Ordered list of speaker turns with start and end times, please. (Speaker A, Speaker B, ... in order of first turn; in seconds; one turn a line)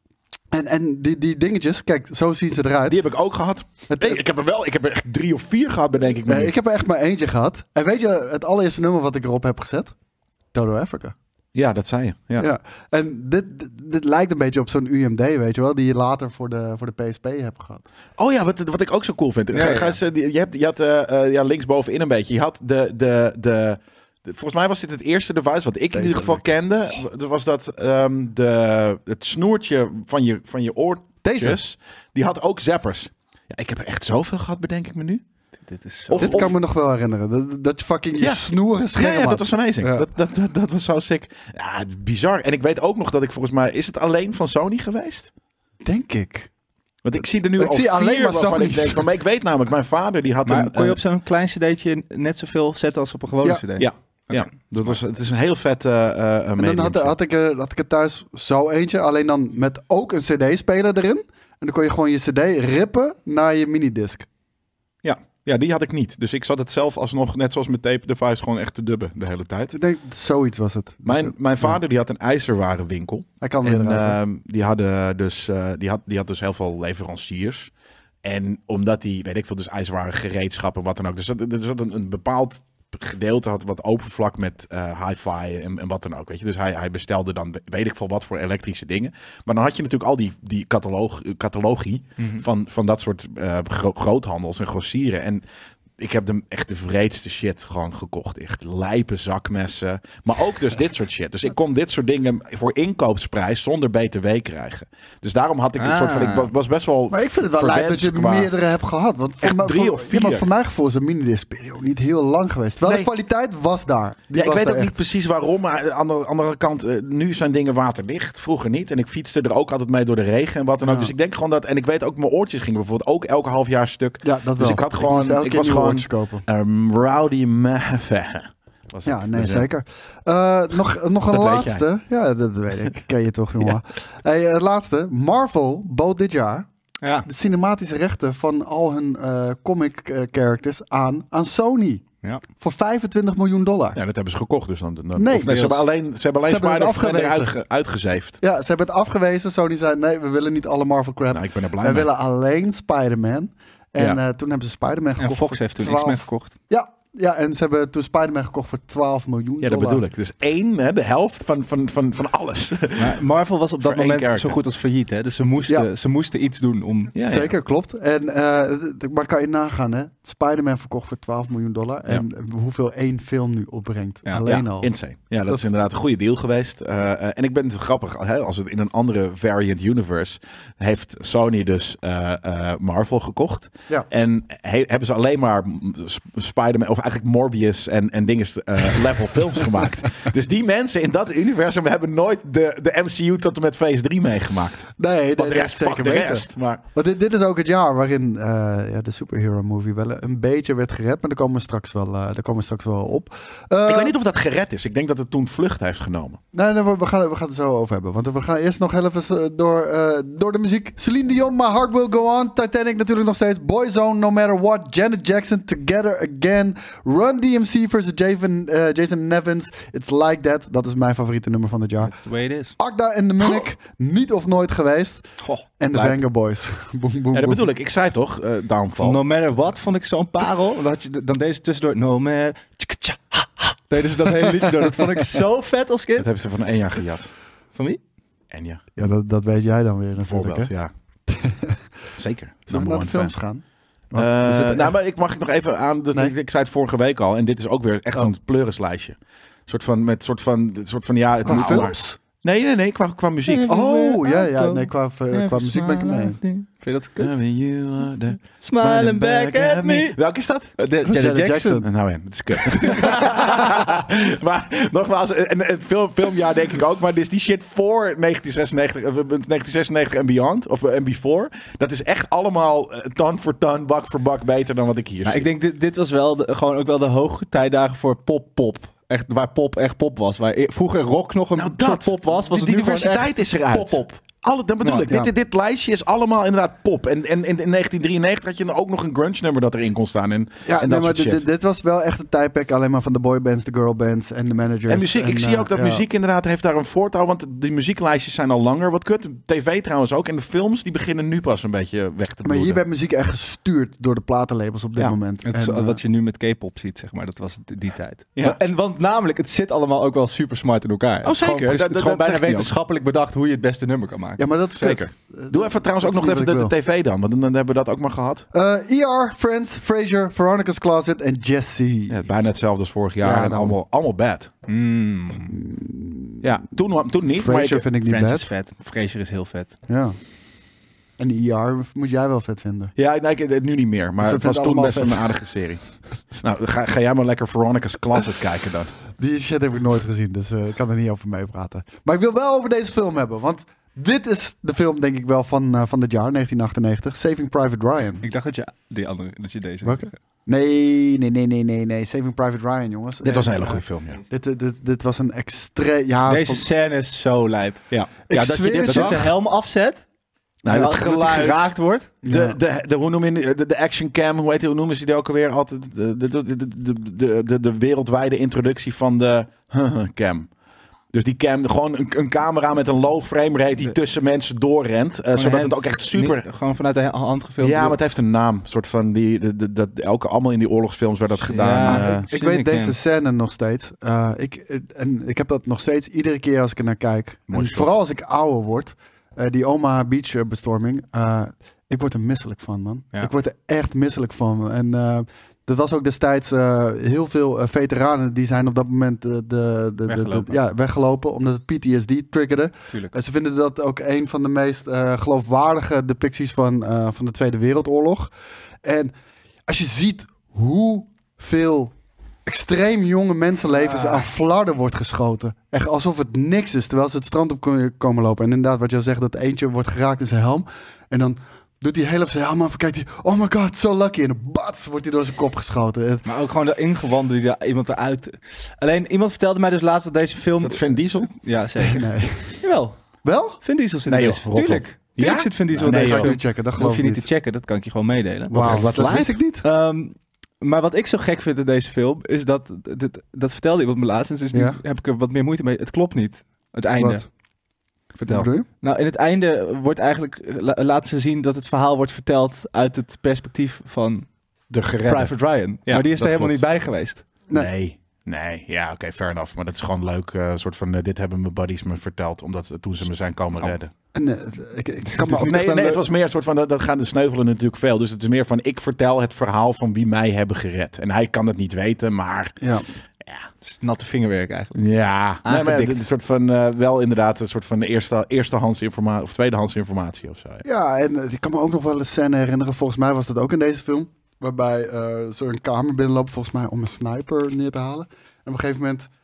Speaker A: 0.5-3.0
Speaker B: 2.9-6.5
Speaker A: 3.9-4.2
Speaker A: 6.2-9.9
Speaker A: 10.5-11.1
Speaker B: 11.5-12.5
Speaker A: 12.4-17.9
Speaker B: 18.2-35.2
Speaker C: 19.5-20.0
Speaker A: 25.9-26.4
Speaker A: 31.2-31.6
Speaker C: 35.7-36.5
Speaker B: 36.1-36.5
Speaker A: 36.2-40.1
Speaker B: 38.2-45.3
Speaker A: 45.8-46.5
Speaker B: 47.0-51.0
Speaker A: 47.6-49.1
Speaker C: 50.4-54.5
Speaker B: 53.8-57.1
Speaker A: 56.6-64.3
Speaker B: 65.0-69.7
Speaker A: 69.7-71.8
Speaker B: 71.0-77.7
Speaker A: 73.4-74.2
Speaker B: 78.2-95.4
Speaker C: 92.2-92.4
Speaker B: 96.0-108.5
Speaker C: 105.8-106.5
Speaker A: 107.1-114.9
Speaker B: 109.4-110.5
Speaker B: 112.8-113.1
Speaker B: 114.3-129.7
Speaker A: 120.8-121.1
Speaker A: 124.2-126.4
Speaker A: 129.1-136.7
Speaker B: 131.3-131.8
Speaker A: 137.2-142.0
Speaker A: 142.6-144.0
Speaker B: 143.9-148.4
Speaker A: 145.2-145.7
Speaker C: 145.4-145.8
Speaker A: 146.4-147.6
Speaker A: 148.4-160.0
Speaker B: 151.3-152.1
Speaker C: 155.2-156.5
Speaker B: 159.6-163.2
Speaker C: 163.0-167.1
Speaker B: 163.8-164.6
Speaker B: 167.1-167.5
Speaker A: 167.2-174.9
Speaker B: 174.4-196.8
Speaker A: 195.0-204.1
Speaker B: 203.8-206.4
Speaker A: 206.5-222.1
Speaker C: 222.0-222.7
Speaker A: 222.8-225.2
Speaker A: 225.8-227.7
Speaker B: 225.9-226.2
Speaker B: 227.3-229.2
Speaker C: 229.0-236.3
Speaker A: 234.6-235.0
Speaker B: 236.2-237.3
Speaker C: 237.7-238.0
Speaker B: 238.5-238.8
Speaker A: 238.9-240.7
Speaker B: 240.2-240.9
Speaker A: 241.3-241.8
Speaker B: 242.2-243.3
Speaker A: 242.7-244.9
Speaker B: 244.1-253.7
Speaker A: 251.4-252.2
Speaker C: 251.5-251.8
Speaker C: 253.5-257.3
Speaker A: 253.7-256.4
Speaker B: 257.2-260.7
Speaker C: 258.6-260.2
Speaker C: 260.8-261.9
Speaker A: 261.1-261.9
Speaker B: 261.8-275.5
Speaker C: 262.9-263.4
Speaker C: 275.2-284.2
Speaker B: 281.6-291.4
Speaker A: 285.0-285.3
Speaker A: 290.6-296.0
Speaker B: 294.9-302.8
Speaker A: 302.4-306.0
Speaker C: 305.4-314.4
Speaker B: 311.2-312.7
Speaker A: 314.4-316.7
Speaker B: 314.8-318.4
Speaker A: 318.5-322.2
Speaker B: 322.1-324.5
Speaker A: 323.2-323.8
Speaker C: 324.7-325.5
Speaker A: 325.4-326.4
Speaker B: 326.4-327.9
Speaker A: 327.3-328.5
Speaker C: 328.0-329.7
Speaker A: 329.9-330.2
Speaker A: 331.2-332.9
Speaker B: 333.0-338.9
Speaker A: 334.2-335.2
Speaker A: 339.2-348.2
Speaker C: 348.2-350.1
Speaker A: 349.8-356.6
Speaker B: 353.2-354.2
Speaker C: 356.3-357.8
Speaker B: 357.9-359.3
Speaker A: 358.3-359.2
Speaker C: 358.6-360.0
Speaker B: 360.6-370.5
Speaker C: 360.7-362.1
Speaker A: 362.2-362.6
Speaker B: 371.1-376.4
Speaker C: 375.3-378.0
Speaker B: 377.6-382.2
Speaker C: 381.4-382.9
Speaker A: 381.8-408.3
Speaker B: 387.5-387.9
Speaker C: 400.1-400.6
Speaker A: 408.8-409.1
Speaker A: 409.7-411.9
Speaker A: 412.4-426.2
Speaker C: 413.8-414.2
Speaker C: 426.2-433.0
Speaker B: 430.6-431.3
Speaker A: 431.9-432.6
Speaker A: 433.2-433.6
Speaker C: 433.6-447.2
Speaker B: 434.1-436.3
Speaker A: 435.8-437.2
Speaker A: 438.5-439.6
Speaker B: 438.5-439.3
Speaker A: 444.5-444.8
Speaker A: 447.0-447.2
Speaker B: 448.2-448.5
Speaker A: 448.3-448.6
Speaker C: 448.8-454.3
Speaker B: 454.7-455.3
Speaker C: 455.0-457.2
Speaker B: 455.9-456.6
Speaker B: 457.5-463.9
Speaker A: 464.1-466.0
Speaker C: 465.2-465.9
Speaker B: 465.2-472.6
Speaker A: 472.6-472.9
Speaker C: 473.6-474.8
Speaker B: 474.7-480.6
Speaker C: 475.4-476.0
Speaker A: 480.6-489.1